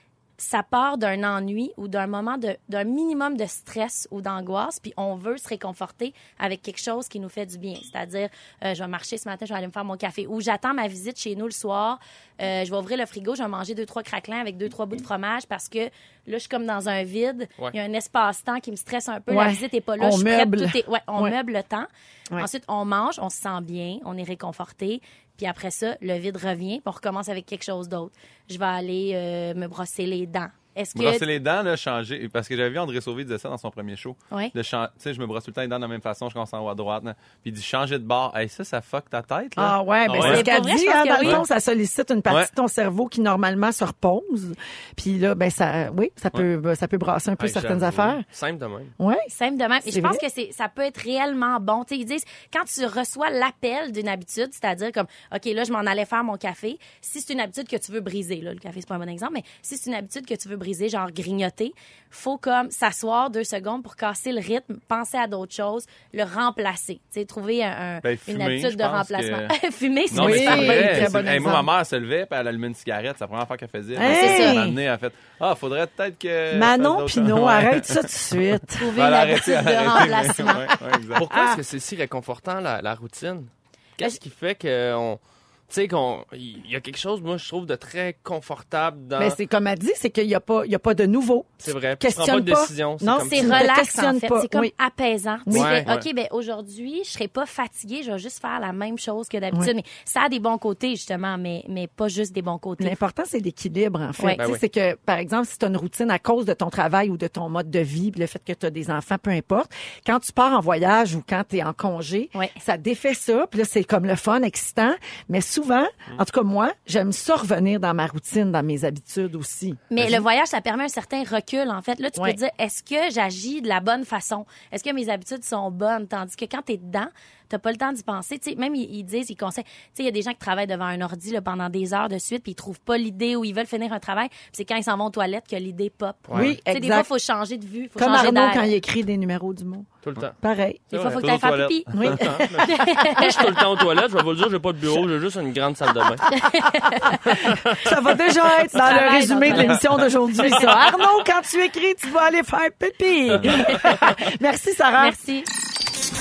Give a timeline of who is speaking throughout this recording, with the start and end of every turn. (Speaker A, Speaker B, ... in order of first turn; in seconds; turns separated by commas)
Speaker A: 0.4-31.2, Speaker B: 19.3-21.3, Speaker C: 30.9-40.4, Speaker B: 39.6-48.2, Speaker D: 40.1-40.4, Speaker A: 40.2-41.4, Speaker D: 47.4-48.9, Speaker B: 49.0-49.3, Speaker A: 49.3-71.2, Speaker B: 49.9-50.2, Speaker C: 68.0-69.5, Speaker B: 70.1-71.7, Speaker C: 70.1-78.1, Speaker B: 73.9-74.8, Speaker A: 74.0-74.6, Speaker B: 76.5-78.9, Speaker A: 78.8-80.7, Speaker C: 78.9-81.2, Speaker B: 80.0-81.6, Speaker D: 81.2-85.2, Speaker D: 85.7-89.4, Speaker B: 89.2-94.7, Speaker D: 91.6-93.7, Speaker A: 93.2-103.0, Speaker B: 95.5-95.8, Speaker D: 95.5-96.0, Speaker B: 102.8-119.8, Speaker A: 104.2-104.4, Speaker A: 119.9-138.7, Speaker D: 136.3-136.6, Speaker B: 136.3-137.1, Speaker B: 138.0-139.9, Speaker D: 140.0-140.3, Speaker B: 140.4-140.8, Speaker D: 140.9-141.4, Speaker A: 140.9-143.4, Speaker C: 141.2-142.2, Speaker B: 141.9-142.9, Speaker D: 142.2-146.3, Speaker A: 146.3-147.3, Speaker B: 147.0-155.2, Speaker D: 147.3-147.9, Speaker A: 148.7-150.7, Speaker A: 155.0-155.5